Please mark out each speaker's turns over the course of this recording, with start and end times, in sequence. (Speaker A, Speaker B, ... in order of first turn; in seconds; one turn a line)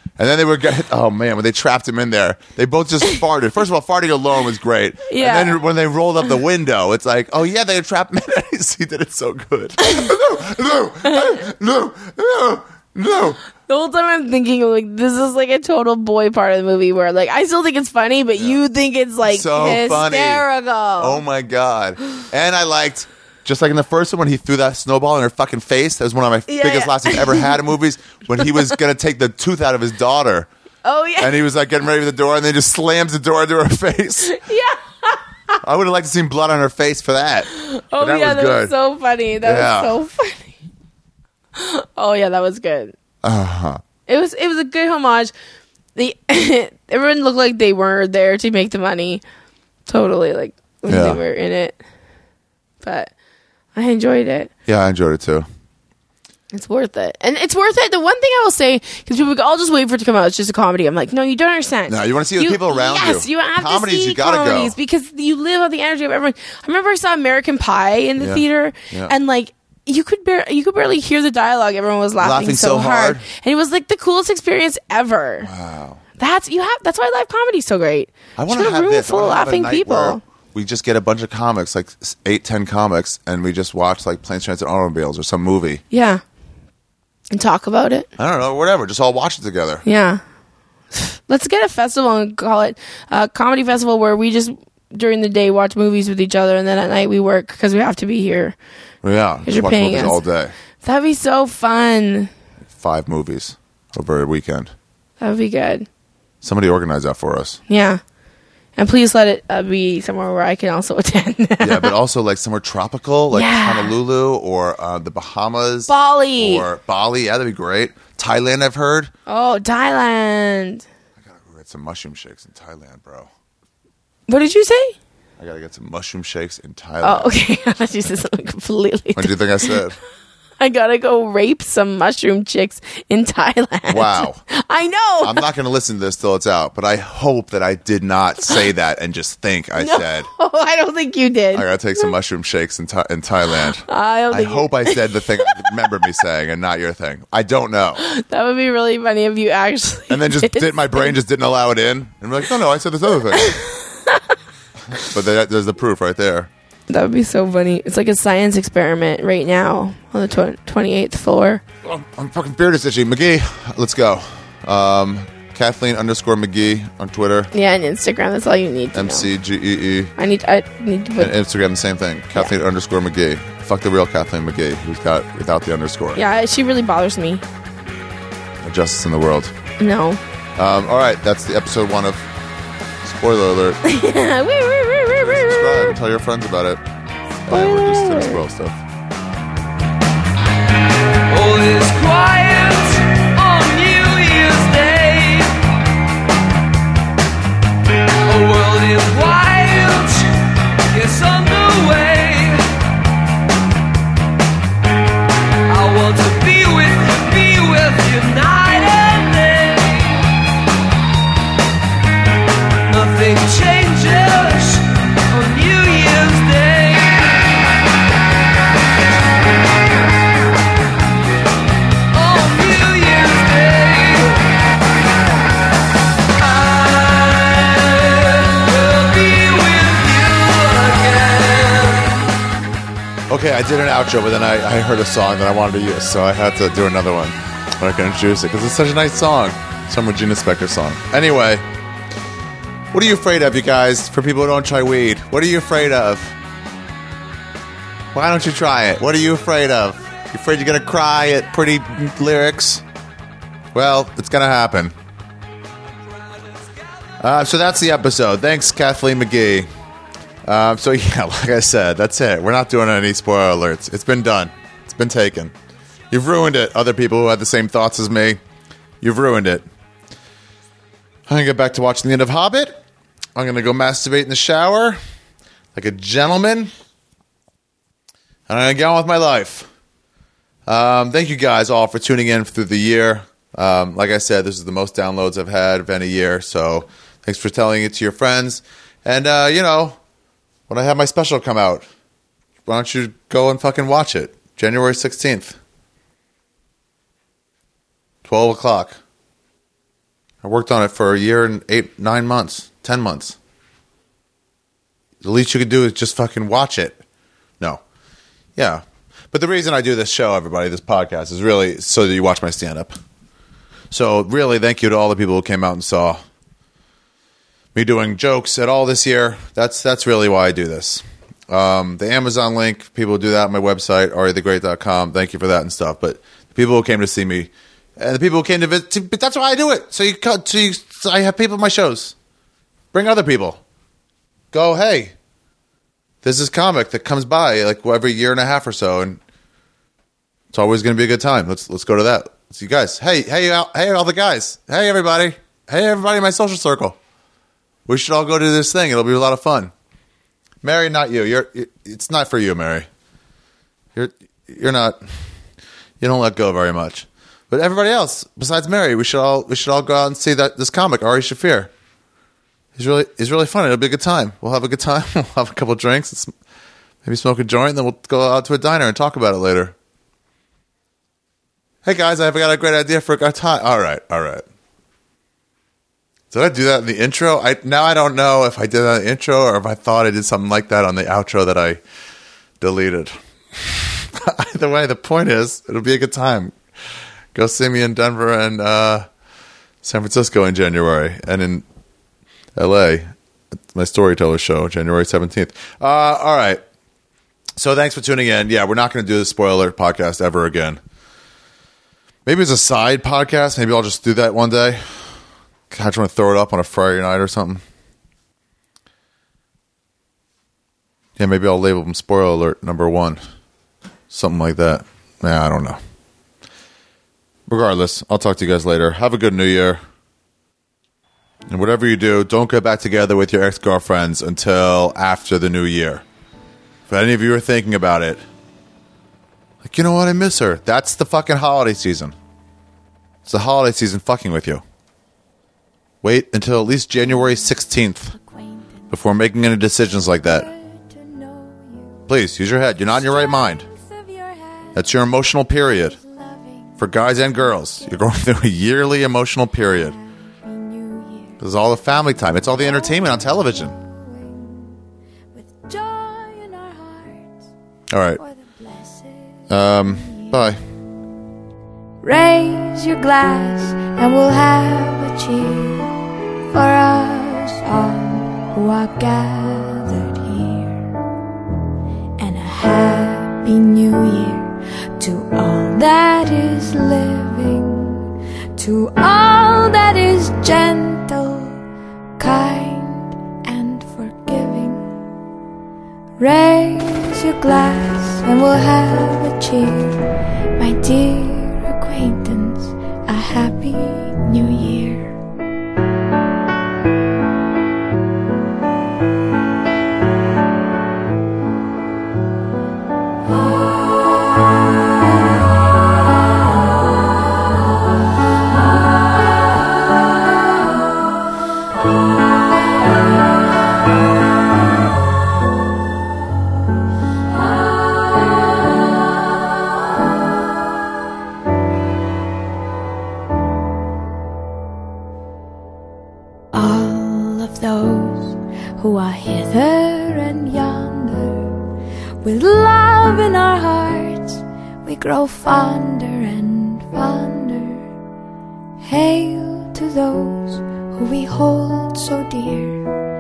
Speaker A: 0.2-13.4
Speaker B: 5.1-5.6
Speaker B: 9.8-10.1
Speaker B: 11.1-11.4
Speaker B: 13.7-21.2
Speaker A: 19.2-20.4
Speaker A: 21.0-30.5
Speaker B: 26.5-27.5
Speaker B: 28.4-28.8
Speaker B: 30.9-31.4
Speaker A: 31.2-34.4
Speaker B: 34.3-35.6
Speaker A: 35.6-38.7
Speaker B: 37.5-40.6
Speaker A: 39.4-40.0
Speaker B: 41.6-43.0
Speaker A: 43.2-43.8
Speaker B: 44.1-45.3
Speaker B: 46.0-49.2
Speaker B: 49.9-51.8
Speaker A: 50.9-51.2
Speaker B: 52.8-53.1
Speaker B: 53.8-54.5
Speaker A: 54.7-55.5
Speaker B: 56.5-75.5
Speaker A: 61.9-64.8
Speaker A: 68.2-69.2
Speaker A: 72.2-73.2
Speaker A: 75.4-76.0
Speaker B: 76.2-80.2
Speaker A: 78.4-85.8
Speaker B: 85.9-86.2
Speaker B: 87.3-88.1
Speaker A: 88.2-89.8
Speaker B: 89.8-90.2
Speaker B: 90.9-98.6
Speaker A: 99.0-100.5
Speaker B: 99.5-100.2
Speaker B: 100.8-102.3
Speaker A: 102.7-104.7
Speaker B: 105.2-105.9
Speaker A: 106.4-107.6
Speaker B: 107.7-108.0
Speaker B: 108.8-111.9
Speaker A: 111.6-119.1
Speaker B: 113.3-113.9
Speaker B: 115.9-116.7
Speaker B: 119.3-120.8
Speaker A: 121.2-123.3
Speaker B: 124.3-125.0
Speaker A: 125.4-127.3
Speaker B: 127.0-129.8
Speaker A: 129.2-130.0
Speaker B: 130.6-135.4
Speaker A: 133.9-134.4
Speaker A: 135.2-140.3
Speaker B: 139.8-142.1
Speaker A: 141.5-148.0
Speaker B: 143.8-145.8
Speaker B: 148.0-151.1
Speaker A: 150.1-153.6
Speaker B: 153.3-154.3
Speaker A: 154.9-156.5
Speaker B: 156.9-161.6
Speaker A: 161.8-167.5
Speaker B: 167.5-169.3
Speaker A: 168.9-170.1
Speaker B: 170.2-171.3
Speaker A: 171.2-176.2
Speaker B: 176.2-177.4
Speaker A: 178.6-179.5
Speaker B: 179.8-180.2
Speaker A: 180.6-182.3
Speaker A: 183.0-183.8
Speaker B: 183.8-186.0
Speaker A: 185.1-186.8
Speaker A: 187.5-188.8
Speaker B: 187.5-188.4
Speaker C: 191.3-195.6
Speaker C: 198.3-200.3
Speaker C: 200.9-202.6
Speaker C: 205.7-210.2
Speaker C: 212.9-217.6
Speaker C: 222.1-224.4
Speaker C: 226.4-232.2
Speaker A: 233.3-241.7
Speaker A: 242.9-246.4
Speaker A: 248.1-252.8
Speaker A: 253.7-254.9
Speaker A: 257.2-259.7
Speaker A: 260.4-265.5
Speaker A: 266.1-268.4
Speaker A: 269.0-269.7
Speaker A: 271.3-272.8
Speaker A: 273.4-275.0
Speaker A: 275.8-276.7
Speaker A: 278.5-279.7
Speaker A: 280.7-290.0
Speaker A: 290.7-291.9
Speaker A: 292.7-295.6
Speaker A: 298.2-299.0
Speaker A: 300.4-303.4
Speaker A: 305.2-307.0
Speaker A: 308.6-312.9
Speaker A: 313.9-316.2
Speaker A: 317.8-332.1
Speaker A: 332.9-333.6
Speaker A: 334.5-335.1
Speaker A: 336.2-339.2
Speaker A: 340.5-347.0
Speaker A: 347.9-349.7
Speaker A: 350.6-352.9
Speaker A: 353.9-355.0
Speaker A: 356.0-361.7
Speaker A: 362.8-366.3
Speaker A: 367.0-369.8
Speaker A: 371.8-374.4
Speaker A: 376.3-381.8
Speaker A: 382.6-386.5
Speaker A: 387.3-389.1
Speaker A: 389.8-391.6
Speaker A: 392.6-393.1
Speaker A: 393.7-396.6
Speaker A: 397.6-400.8
Speaker A: 402.2-404.8
Speaker A: 405.7-407.6
Speaker A: 411.2-413.2
Speaker A: 414.1-415.8
Speaker A: 417.5-419.8
Speaker A: 421.5-426.0
Speaker A: 426.9-428.2
Speaker A: 429.6-432.1
Speaker A: 433.3-434.6
Speaker A: 436.0-438.1
Speaker D: 437.0-439.0
Speaker A: 438.9-440.5
Speaker D: 439.8-442.1
Speaker A: 442.1-443.7
Speaker D: 442.8-448.3
Speaker A: 444.8-446.0
Speaker A: 446.8-450.0
Speaker D: 449.5-451.4
Speaker A: 451.4-453.8
Speaker D: 452.0-454.8
Speaker D: 455.3-457.5
Speaker A: 457.9-458.2
Speaker D: 458.2-460.6
Speaker A: 459.5-460.6
Speaker D: 462.0-470.9
Speaker D: 472.2-481.6
Speaker D: 482.2-485.0
Speaker D: 486.2-490.0
Speaker D: 490.6-495.1
Speaker D: 526.5-531.6
Speaker D: 532.2-537.9
Speaker D: 538.8-542.9